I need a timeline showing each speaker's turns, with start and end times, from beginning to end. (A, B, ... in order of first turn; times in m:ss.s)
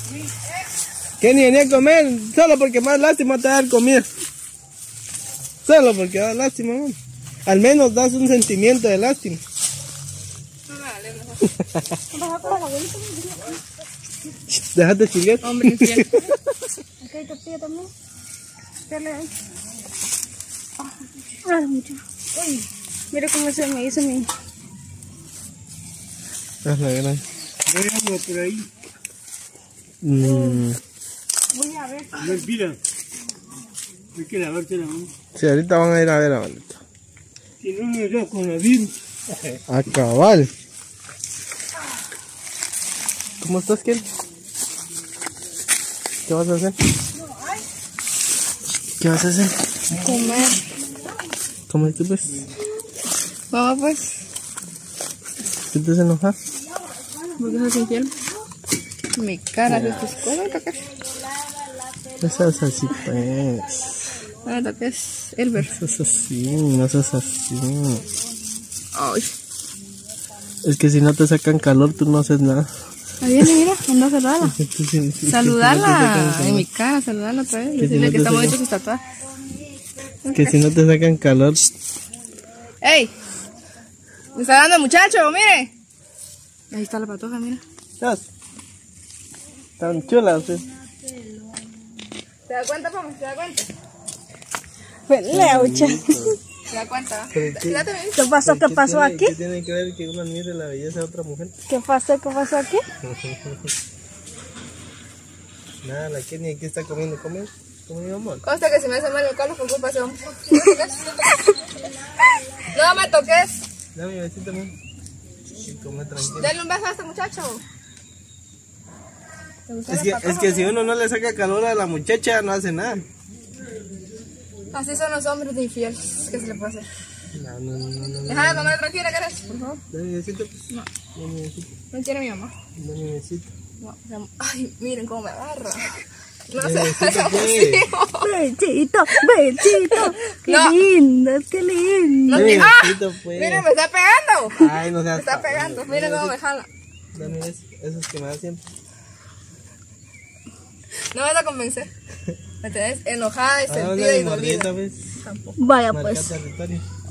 0:01.2-0:04.1 A
0:05.6-0:09.4 A
0:10.7-0:11.5 B
0:12.1-0:13.6 C
0:14.5-0:16.2 A
0:15.4-0:16.3 B
0:17.0-0:17.9 C
0:18.9-0:19.3 C
0:21.4-0:24.3 C
0:26.6-0:27.2 A
0:27.6-0:28.7 D
0:30.0-0:30.8 A
0:30.2-0:30.6 C
0:31.5-0:32.5 C
0:32.2-0:32.8 D
0:34.1-0:35.1 D
0:35.3-0:36.8 A
0:37.6-0:39.6 D
0:39.7-0:40.5 A
0:43.4-0:44.0 A
0:46.3-0:46.8 A
0:47.1-0:47.6 C
0:49.0-0:49.8 A
0:49.9-0:50.6 B
0:51.7-0:52.5 A
0:53.5-0:54.0 B
0:55.7-0:56.4 A
0:57.4-0:58.1 B
0:59.2-1:00.9 B
0:59.6-1:00.1 A
1:02.2-1:04.1 A
1:04.4-1:05.7 B
1:05.6-1:08.1 A
1:08.9-1:09.3 B
1:10.6-1:12.7 A
1:13.2-1:14.6 B
1:14.6-1:16.6 A
1:15.3-1:19.0 B
1:17.8-1:18.6 A
1:20.2-1:20.6 B
1:20.3-1:21.7 A
1:22.8-1:23.1 B
1:24.3-1:25.7 B
1:26.7-1:27.6 B
1:28.0-1:28.2 A
1:29.8-1:30.7 A
1:32.5-1:33.7 B
1:35.1-1:36.4 C
1:35.3-1:36.3 A
1:36.7-1:38.3 B
1:37.3-1:37.8 A
1:38.1-1:39.3 C
1:38.4-1:41.5 A
1:41.7-1:42.8 C
1:43.0-1:43.6 A
1:45.8-1:48.4 A
1:48.4-1:53.6 B
1:53.9-1:54.7 A
1:55.6-1:56.5 A
1:56.4-1:57.6 B
1:59.7-2:00.7 B
1:59.9-2:03.0 A
2:04.7-2:06.9 B
2:07.3-2:08.8 A
2:08.2-2:09.8 B
2:09.9-2:10.6 A
2:11.2-2:11.7 A
2:11.9-2:12.5 B
2:12.8-2:13.5 A
2:13.8-2:16.0 B
2:16.5-2:18.3 B
2:16.6-2:17.9 A
2:18.2-2:22.7 C
2:19.9-2:20.8 B
2:22.3-2:26.7 B
2:22.3-2:23.7 A
2:24.6-2:26.3 A
2:27.1-2:28.6 A
2:31.1-2:31.9 B
2:32.6-2:35.6 B
2:33.7-2:35.0 A
2:35.6-2:36.3 C
2:35.9-2:36.8 A